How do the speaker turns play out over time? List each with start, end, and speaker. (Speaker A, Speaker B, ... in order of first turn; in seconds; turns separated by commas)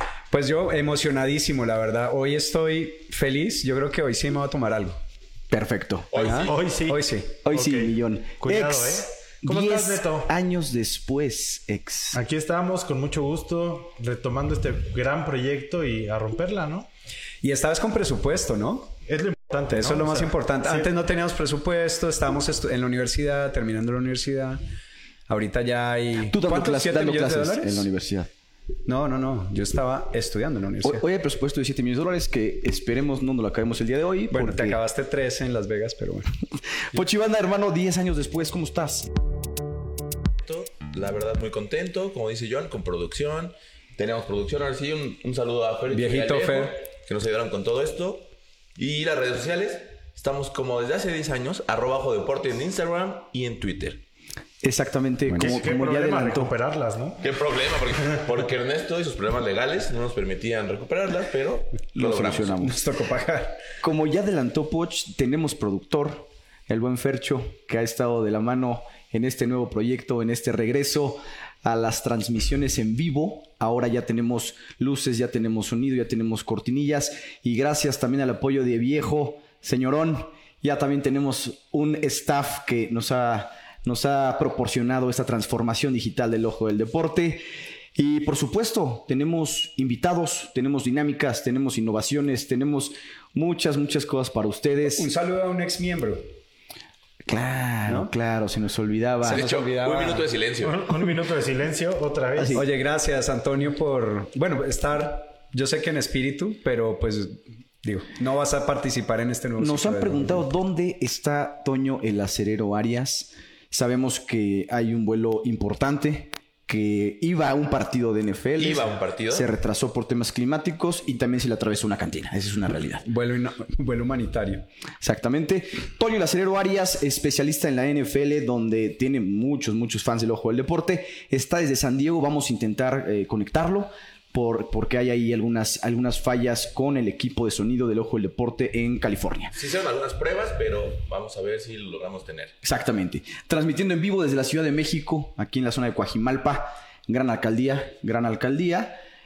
Speaker A: 0.3-5.0, Speaker B: 5.5-6.5, Speaker C: 6.1-6.6, Speaker A: 6.2-7.3, Speaker D: 6.3-10.3, Speaker B: 7.4-12.2, Speaker D: 12.1-16.9, Speaker A: 17.4-18.9, Speaker D: 19.1-20.9, Speaker A: 19.7-24.6, Speaker A: 25.3-27.9, Speaker B: 26.3-28.3, Speaker A: 28.9-31.0, Speaker B: 30.8-34.8, Speaker A: 34.3-36.3, Speaker B: 36.9-39.1, Speaker C: 40.4-54.0, Speaker A: 45.9-46.8, Speaker B: 54.6-56.5, Speaker D: 55.3-57.2, Speaker C: 57.2-62.6, Speaker B: 62.0-62.8, Speaker A: 62.5-63.6, Speaker B: 63.8-87.4, Speaker B: 88.0-95.1, Speaker A: 94.9-96.2, Speaker B: 97.2-99.5, Speaker A: 99.2-100.3, Speaker C: 99.2-100.8, Speaker D: 100.6-102.6, Speaker B: 102.3-102.7, Speaker A: 102.5-110.4, Speaker B: 109.6-123.0, Speaker C: 118.6-119.5, Speaker A: 123.0-124.6, Speaker B: 125.0-139.5, Speaker C: 139.5-142.5, Speaker B: 142.6-149.0